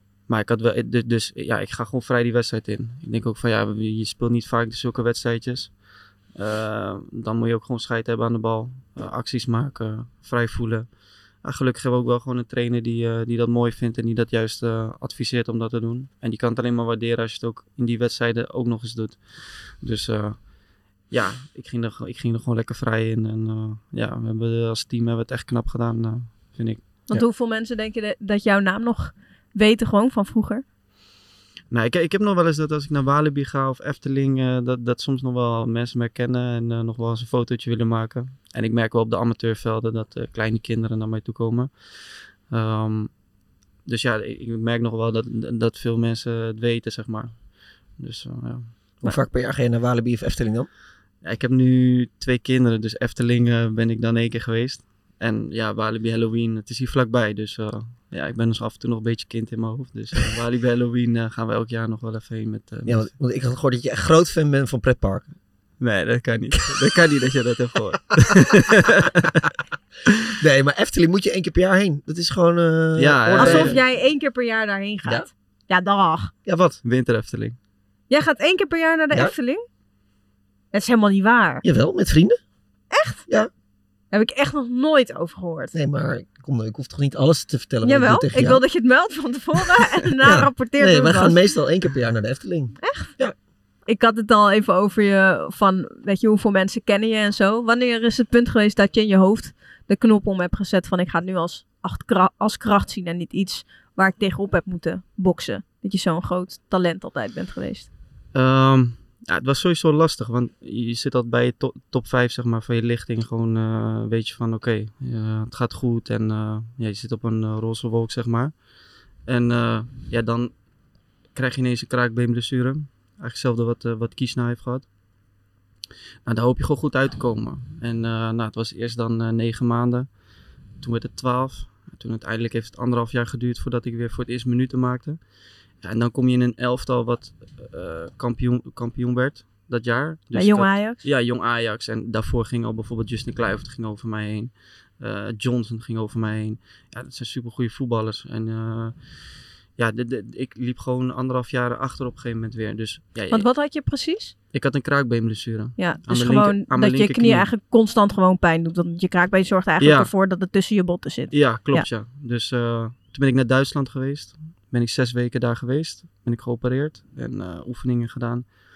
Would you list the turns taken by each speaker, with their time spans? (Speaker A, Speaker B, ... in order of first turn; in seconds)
Speaker A: 0.3-26.8, 31.7-43.1, 43.8-48.7, 51.2-63.1, 65.8-69.4, 73.0-73.8, 76.8-77.5, 108.3-118.6, 119.2-120.5, 121.3-124.9, 126.2-130.1, 130.8-135.2, 135.8-149.1, 149.8-153.5, 154.5-157.5, 159.8-160.1, 161.3-168.6
Speaker B: 27.1-30.6, 73.4-76.3, 78.1-79.6, 80.7-81.6, 82.9-83.2, 84.1-85.7, 87.8-91.4, 92.8-93.1, 93.9-107.9, 140.3-141.0, 153.3-154.3, 155.8-161.9
Speaker C: 49.0-50.7, 62.9-65.3, 70.4-73.8, 76.5-76.8, 81.6-82.4, 85.7-88.6, 90.2-93.3